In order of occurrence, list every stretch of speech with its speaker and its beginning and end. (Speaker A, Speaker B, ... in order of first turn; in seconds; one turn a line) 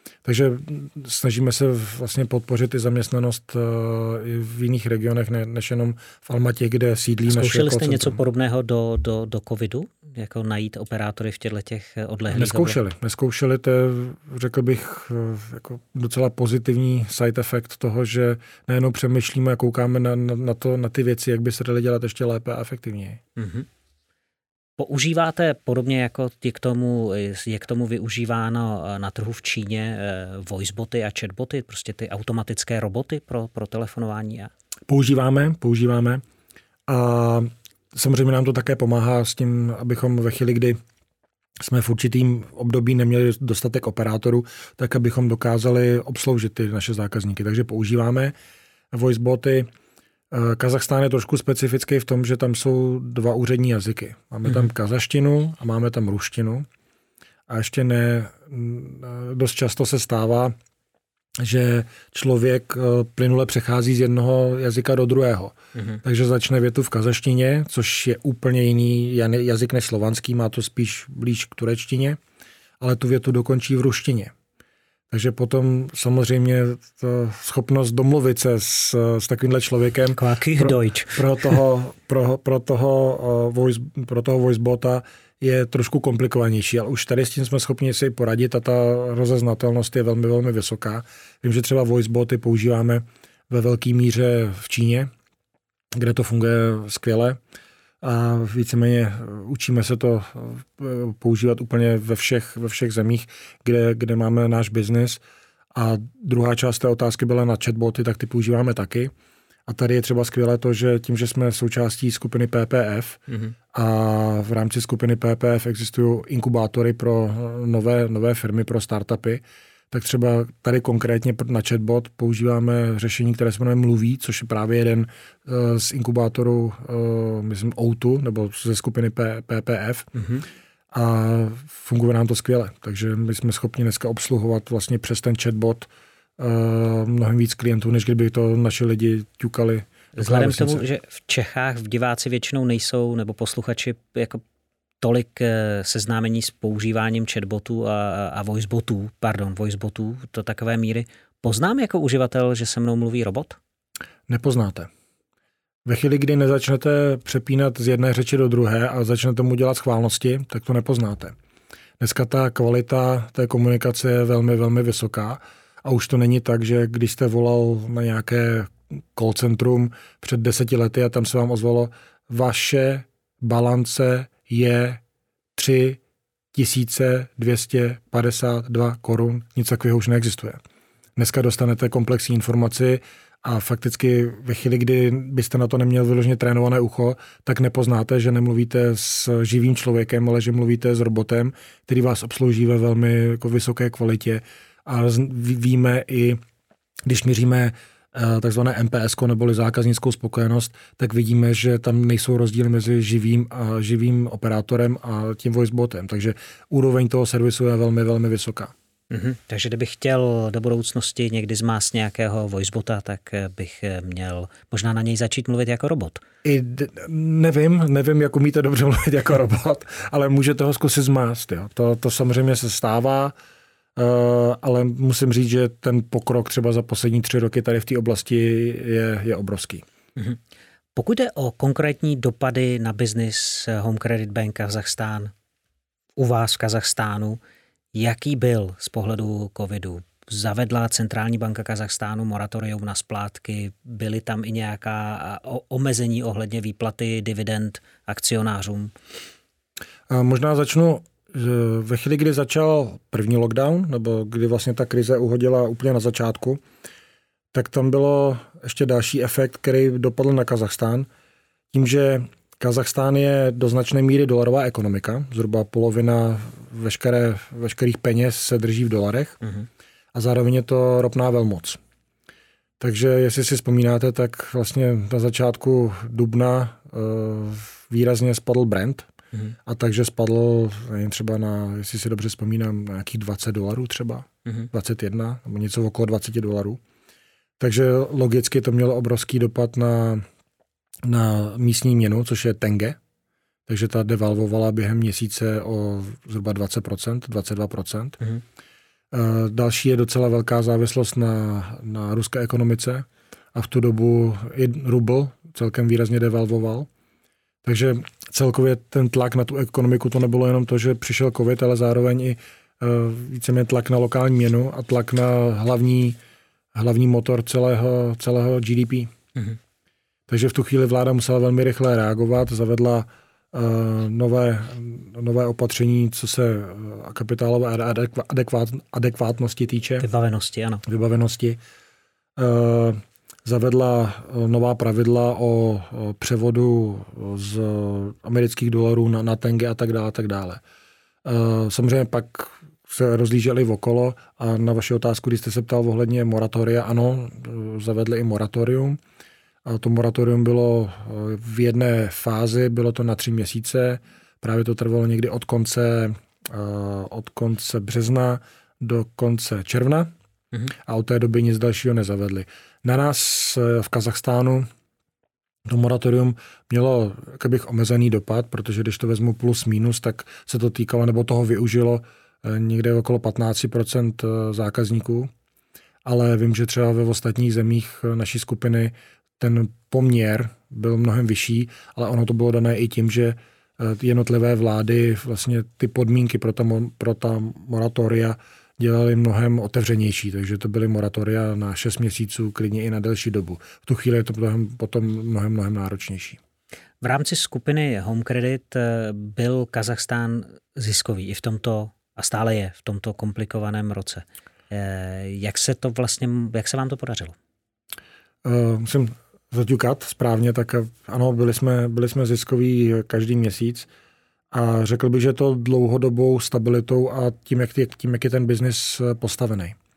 Speaker A: 0.2-8.2
Speaker B: 7.3-12.8
Speaker A: 12.3-23.2
Speaker B: 23.4-23.7
Speaker B: 24.8-34.5
Speaker A: 34.9-36.2
Speaker A: 36.9-40.8
Speaker A: 41.6-48.3
Speaker A: 48.9-49.7
Speaker A: 50.3-56.7
Speaker A: 57.5-60.5
Speaker A: 61.4-72.2
Speaker B: 65.7-66.0
Speaker A: 72.8-74.3
Speaker A: 75.1-95.1
Speaker B: 80.1-81.6
Speaker A: 95.9-97.4
Speaker A: 98.0-105.2
Speaker A: 105.7-109.1
Speaker A: 109.7-113.2
Speaker B: 113.3-113.5
Speaker A: 113.7-130.1
Speaker B: 130.2-130.4
Speaker A: 130.9-140.8
Speaker B: 140.2-144.4
Speaker B: 145.0-153.6
Speaker A: 154.3-154.9
Speaker A: 155.8-161.3
Speaker A: 162.0-175.0
Speaker A: 175.6-176.0
Speaker A: 176.5-180.6
Speaker A: 181.2-196.4
Speaker A: 197.1-208.7
Speaker B: 209.1-216.2
Speaker A: 216.4-223.3
Speaker A: 223.9-229.8
Speaker B: 230.9-235.3
Speaker B: 236.2-237.4
Speaker B: 237.9-248.9
Speaker A: 250.1-256.6
Speaker A: 257.5-261.1
Speaker A: 261.7-269.4
Speaker A: 270.1-271.8
Speaker A: 272.8-279.1
Speaker A: 279.6-286.8
Speaker A: 287.6-290.2
Speaker A: 291.0-293.0
Speaker A: 293.7-298.2
Speaker A: 299.1-306.9
Speaker A: 307.6-316.2
Speaker A: 316.7-319.1
Speaker A: 320.3-330.1
Speaker B: 330.0-330.8
Speaker A: 330.9-331.6
Speaker A: 332.4-340.6
Speaker A: 341.2-349.0
Speaker A: 349.6-360.1
Speaker A: 360.8-364.7
Speaker A: 365.7-375.3
Speaker A: 376.0-396.4
Speaker B: 397.0-407.4
Speaker A: 408.4-413.9
Speaker A: 414.5-419.8